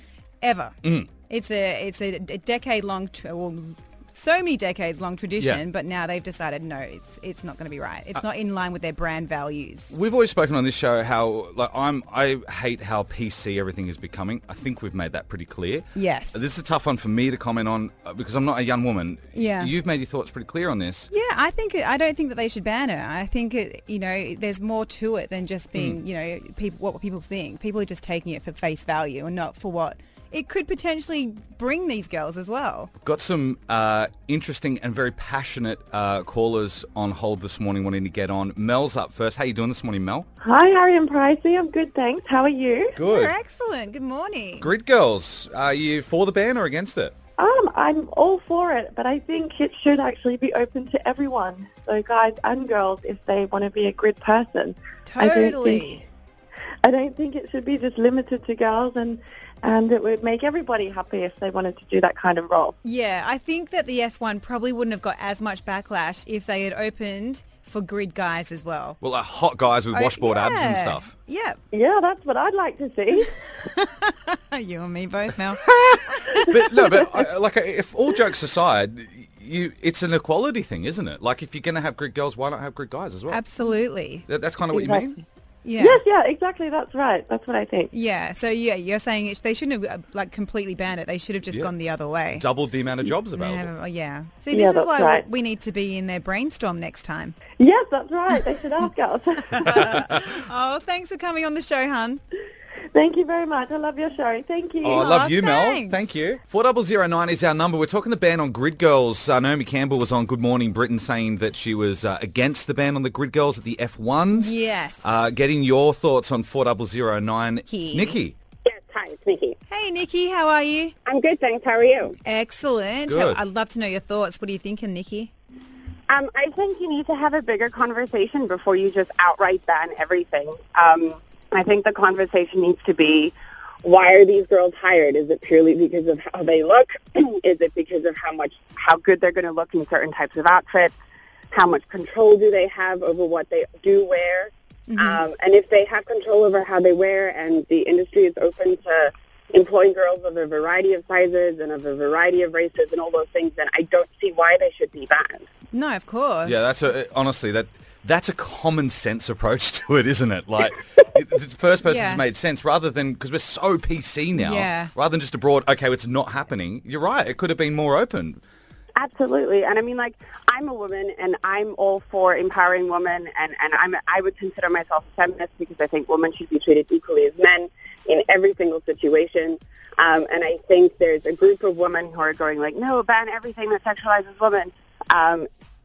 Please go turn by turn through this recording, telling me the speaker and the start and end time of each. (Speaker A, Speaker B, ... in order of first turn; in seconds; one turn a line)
Speaker A: 0.4-9.9
Speaker B: 0.8-1.1
Speaker B: 5.4-5.6
Speaker B: 9.9-21.1
Speaker A: 15.9-16.4
Speaker A: 19.3-19.7
Speaker A: 21.1-32.9
Speaker B: 33.0-40.3
Speaker C: 40.4-43.0
Speaker B: 42.9-43.3
Speaker A: 43.0-44.7
Speaker B: 44.6-47.1
Speaker C: 47.4-56.0
Speaker A: 55.0-56.0
Speaker C: 56.8-62.7
Speaker A: 62.8-69.0
Speaker B: 69.0-71.1
Speaker A: 69.9-71.6
Speaker C: 71.7-73.3
Speaker A: 73.8-77.0
Speaker B: 75.6-83.4
Speaker A: 83.3-84.2
Speaker B: 84.3-85.2
Speaker C: 84.7-85.1
Speaker A: 85.6-86.0
Speaker C: 85.8-87.9
Speaker A: 87.9-92.5
Speaker B: 92.3-93.7
Speaker A: 93.3-97.3
Speaker C: 94.5-95.2
Speaker C: 97.6-100.0
Speaker A: 99.6-102.2
Speaker B: 99.6-100.3
Speaker C: 102.9-105.0
Speaker B: 104.8-118.3
Speaker A: 104.9-106.0
Speaker A: 114.3-115.0
Speaker A: 117.7-118.2
Speaker D: 118.6-119.5
Speaker A: 119.7-121.0
Speaker D: 121.0-122.2
Speaker A: 122.2-125.3
Speaker B: 123.1-123.4
Speaker D: 126.1-140.9
Speaker D: 141.5-155.4
Speaker A: 144.9-145.2
Speaker A: 155.7-156.6
Speaker B: 156.4-168.4
Speaker A: 161.8-162.2
Speaker A: 164.3-164.9
Speaker D: 169.0-185.5